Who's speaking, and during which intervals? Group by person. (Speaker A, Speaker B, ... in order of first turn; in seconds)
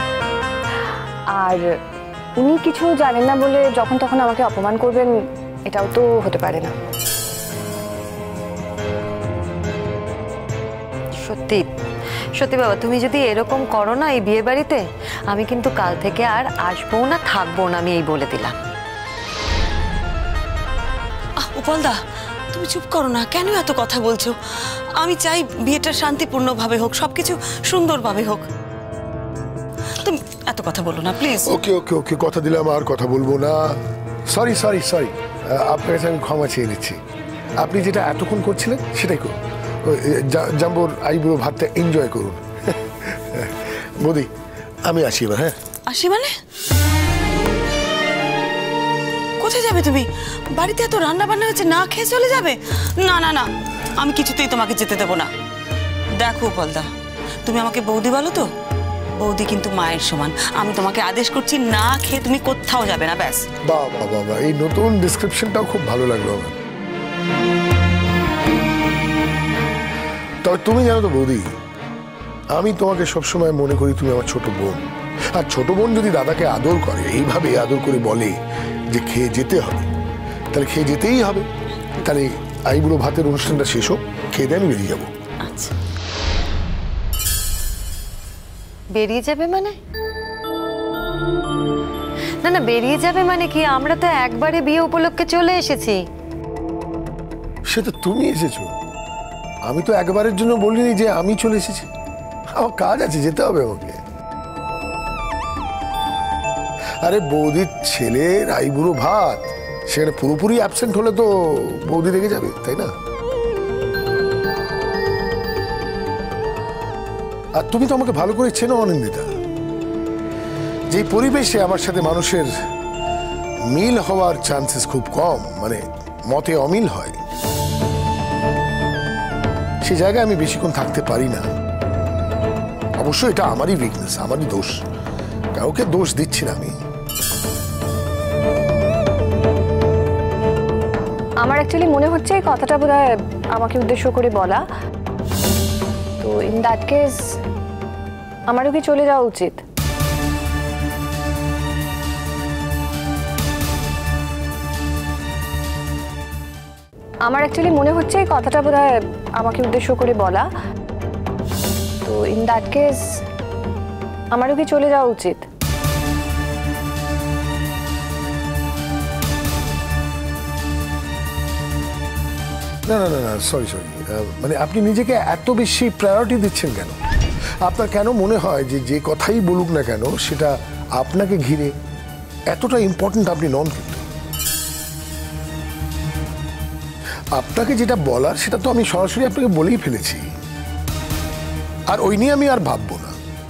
Speaker A: 1.3-1.6, 2.4-5.1, 5.7-6.7, 141.4-144.6, 146.2-147.2, 148.5-149.6, 157.2-160.5, 162.0-163.1, 164.3-165.5
Speaker B: 11.2-11.7, 12.4-18.6, 89.0-89.8, 92.4-96.0
Speaker C: 21.4-22.0, 22.5-24.4, 25.0-28.5, 30.0-31.5, 45.9-46.3, 49.4-50.0, 50.6-55.3, 56.2-56.9, 57.5-58.5, 59.2-63.4, 85.5-85.7
Speaker D: 31.5-33.7, 34.3-37.0, 37.6-44.3, 44.9-45.5, 63.7-66.5, 70.4-71.5, 72.5-74.8, 75.3-78.4, 78.9-79.9, 80.5-81.5, 82.0-85.1, 97.7-98.7, 99.7-101.9, 102.5-104.0, 107.0-112.9, 117.6-119.3, 120.9-122.5, 123.7-127.2, 129.8-131.5, 133.0-134.8, 135.6-136.7, 172.9-176.9, 177.6-181.7, 182.5-184.0, 187.4-190.2, 191.9-193.2